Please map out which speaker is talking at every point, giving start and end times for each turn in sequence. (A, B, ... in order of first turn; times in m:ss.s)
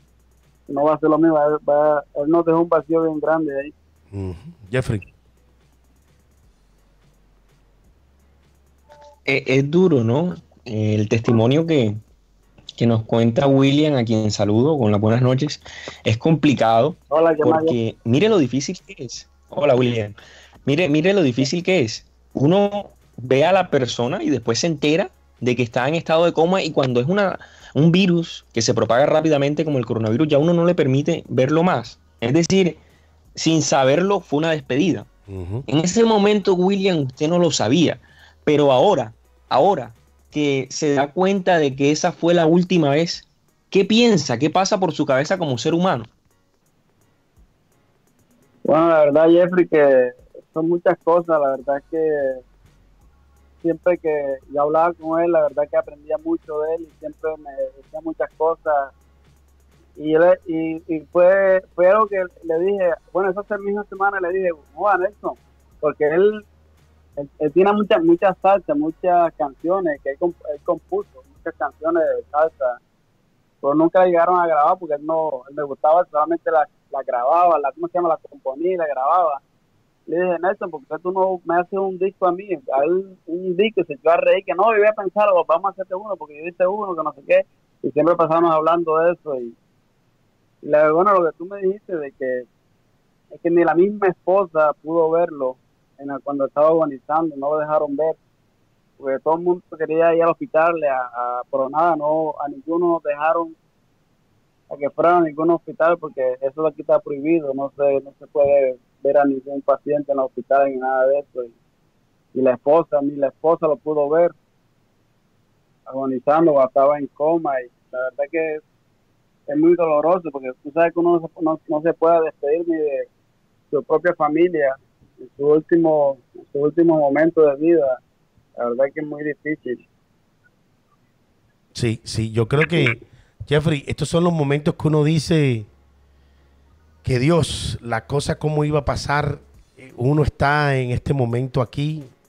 0:00.7-0:03.7 A
0:04.1-0:05.1 B
0:09.3-0:12.0 C
0:12.8-0:32.8 C
0:17.1-0:17.7 A
0:33.4-0:35.1 C
0:35.3-0:35.6 B
0:35.7-0:46.1 C
0:48.6-0:52.4 A
0:53.6-0:58.9 A
1:00.0-1:06.4 A
1:07.2-1:12.8 A
1:13.6-1:19.4 A
1:20.1-1:29.5 A
1:30.6-1:32.4 A
1:33.3-1:38.2 A
1:39.0-1:43.6 A
1:44.7-1:51.5 A
1:52.3-1:54.3 A
1:55.9-1:58.6 A
1:59.5-2:03.1 A
2:03.7-2:08.0 A
2:08.6-2:09.8 A
2:11.7-2:15.7 B
2:17.0-2:22.1 B